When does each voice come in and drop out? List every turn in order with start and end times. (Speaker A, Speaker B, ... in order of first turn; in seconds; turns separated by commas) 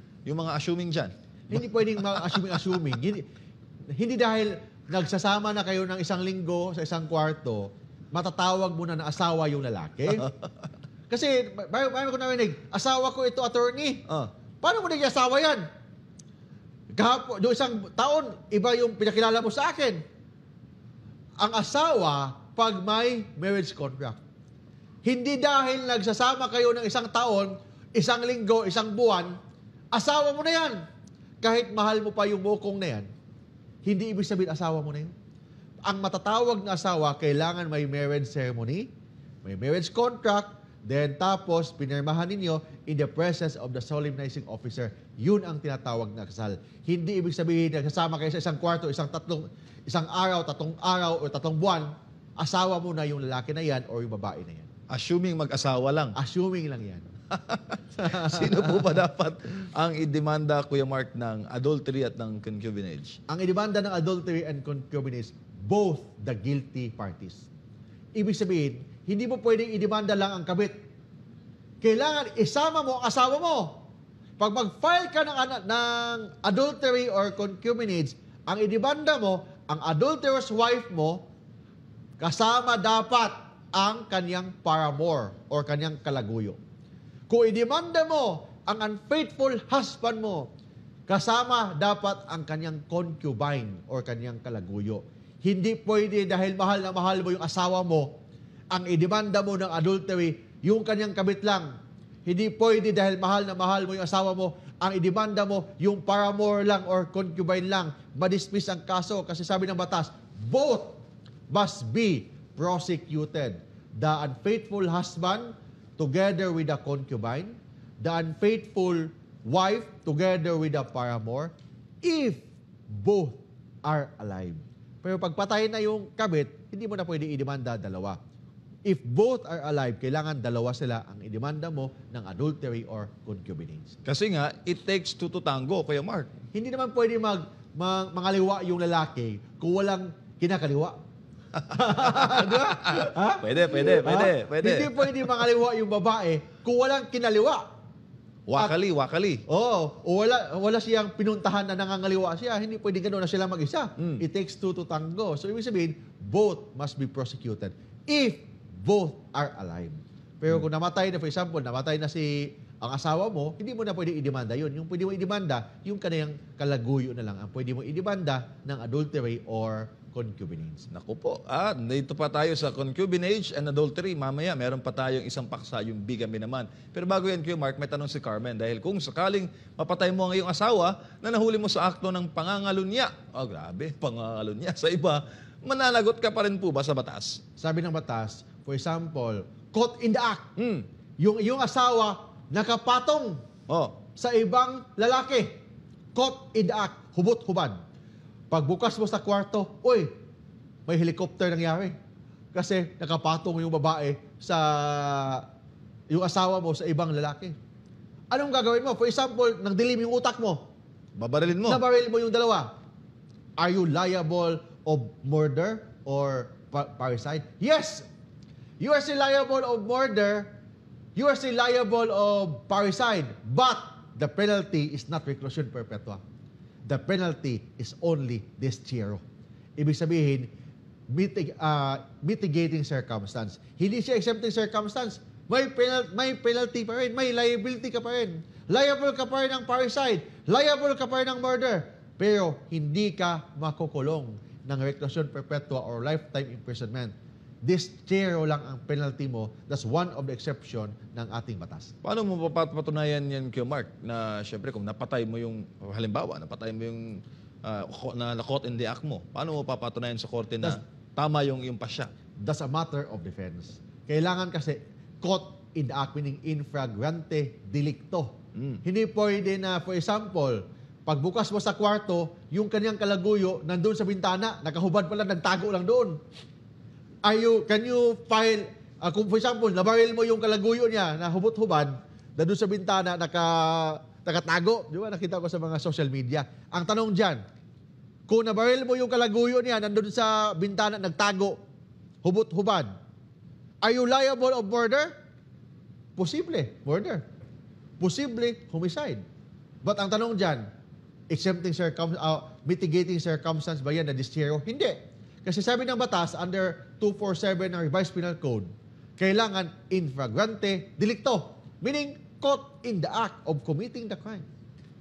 Speaker A: 0.2-2.8, Speaker B: 1.5-3.3, Speaker B: 4.0-10.3, Speaker B: 11.1-14.0, Speaker B: 14.6-15.6, Speaker B: 17.0-20.0, Speaker B: 21.4-24.2, Speaker B: 25.0-29.3, Speaker B: 29.9-30.8, Speaker B: 31.4-33.1, Speaker B: 33.8-35.1, Speaker B: 35.8-38.9, Speaker B: 39.4-54.7, Speaker A: 54.9-56.1, Speaker B: 56.1-57.0, Speaker A: 57.3-63.2, Speaker B: 58.0-58.9, Speaker B: 63.3-67.5, Speaker B: 68.2-70.7, Speaker B: 71.8-73.8, Speaker B: 74.4-81.3, Speaker B: 82.2-86.6, Speaker B: 87.3-90.5, Speaker B: 91.1-98.1, Speaker B: 98.7-101.7, Speaker B: 102.3-128.2, Speaker B: 128.8-133.9, Speaker A: 134.0-136.3, Speaker B: 136.5-140.9, Speaker B: 141.7-147.6, Speaker A: 141.7-145.4, Speaker A: 148.5-149.4, Speaker B: 149.5-170.8, Speaker A: 170.9-187.4, Speaker B: 187.6-190.5, Speaker A: 190.6-190.8, Speaker B: 191.2-193.4, Speaker A: 193.7-194.0, Speaker B: 194.2-195.6, Speaker B: 196.1-197.8, Speaker B: 198.5-200.1, Speaker B: 200.9-201.9, Speaker B: 202.5-205.4, Speaker B: 206.1-207.6, Speaker B: 208.3-210.7, Speaker A: 211.2-211.8, Speaker B: 211.6-212.7, Speaker B: 213.6-218.1, Speaker B: 218.8-220.5, Speaker B: 221.2-226.2, Speaker B: 226.8-229.2, Speaker B: 229.8-230.5, Speaker B: 231.1-251.9, Speaker A: 252.0-262.1, Speaker B: 262.4-276.2, Speaker A: 268.6-268.8, Speaker B: 277.2-287.4, Speaker B: 288.3-291.6, Speaker B: 292.2-292.9, Speaker B: 293.8-295.1, Speaker B: 296.2-297.2, Speaker B: 298.0-299.2, Speaker B: 299.8-300.6, Speaker B: 301.3-314.4